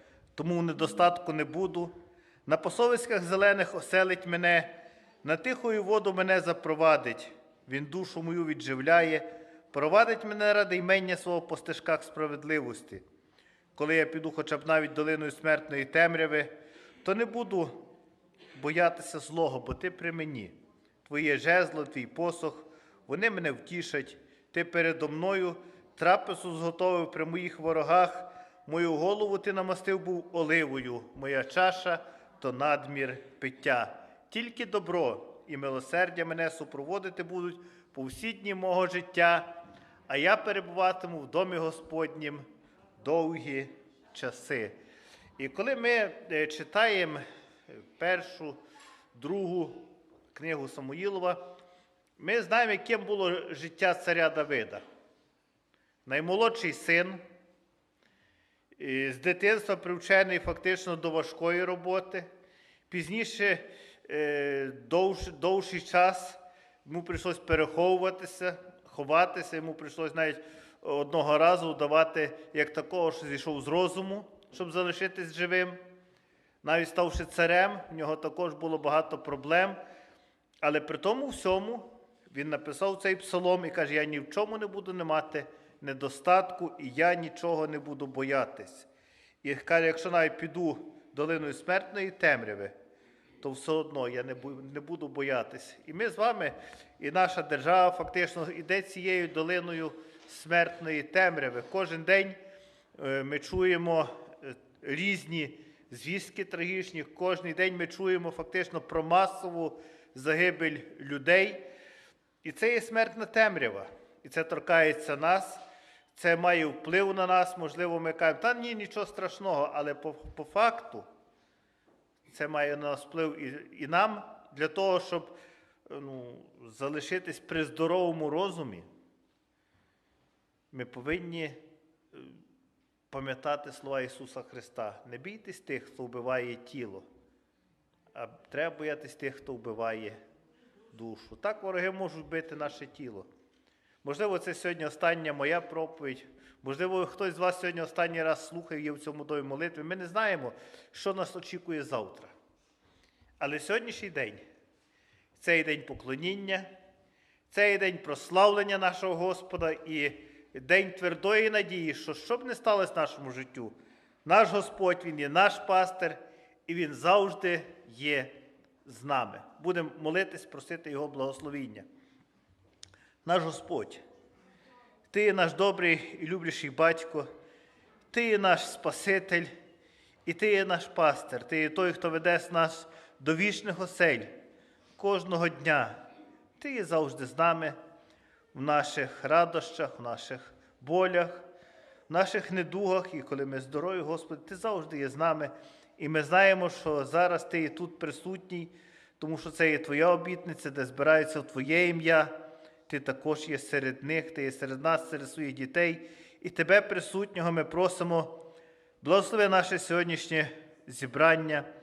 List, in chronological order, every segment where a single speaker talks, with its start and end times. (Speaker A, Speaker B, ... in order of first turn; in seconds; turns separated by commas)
Speaker A: 0.3-1.9, Speaker A: 2.5-13.0, Speaker A: 13.7-17.9, Speaker A: 18.5-39.6, Speaker A: 40.1-42.4, Speaker A: 43.0-44.8, Speaker A: 45.4-48.6, Speaker A: 49.1-51.5, Speaker A: 52.2-54.8, Speaker A: 56.0-57.2, Speaker A: 58.8-62.3, Speaker A: 62.9-75.8, Speaker A: 76.6-79.8, Speaker A: 80.6-88.9, Speaker A: 89.4-92.7, Speaker A: 93.4-102.4, Speaker A: 103.0-111.7, Speaker A: 112.4-115.6, Speaker A: 116.1-121.0, Speaker A: 122.3-125.3, Speaker A: 125.9-128.9, Speaker A: 130.7-131.6, Speaker A: 133.1-137.1, Speaker A: 138.1-140.2, Speaker A: 140.9-143.3, Speaker A: 144.0-152.3, Speaker A: 153.4-154.4, Speaker A: 155.3-156.7, Speaker A: 157.5-163.7, Speaker A: 164.2-171.8, Speaker A: 173.2-174.0, Speaker A: 175.1-177.3, Speaker A: 178.1-179.5, Speaker A: 180.2-184.3, Speaker A: 185.0-186.0, Speaker A: 186.6-187.7, Speaker A: 188.5-191.4, Speaker A: 192.1-202.3, Speaker A: 202.9-208.4, Speaker A: 209.0-211.7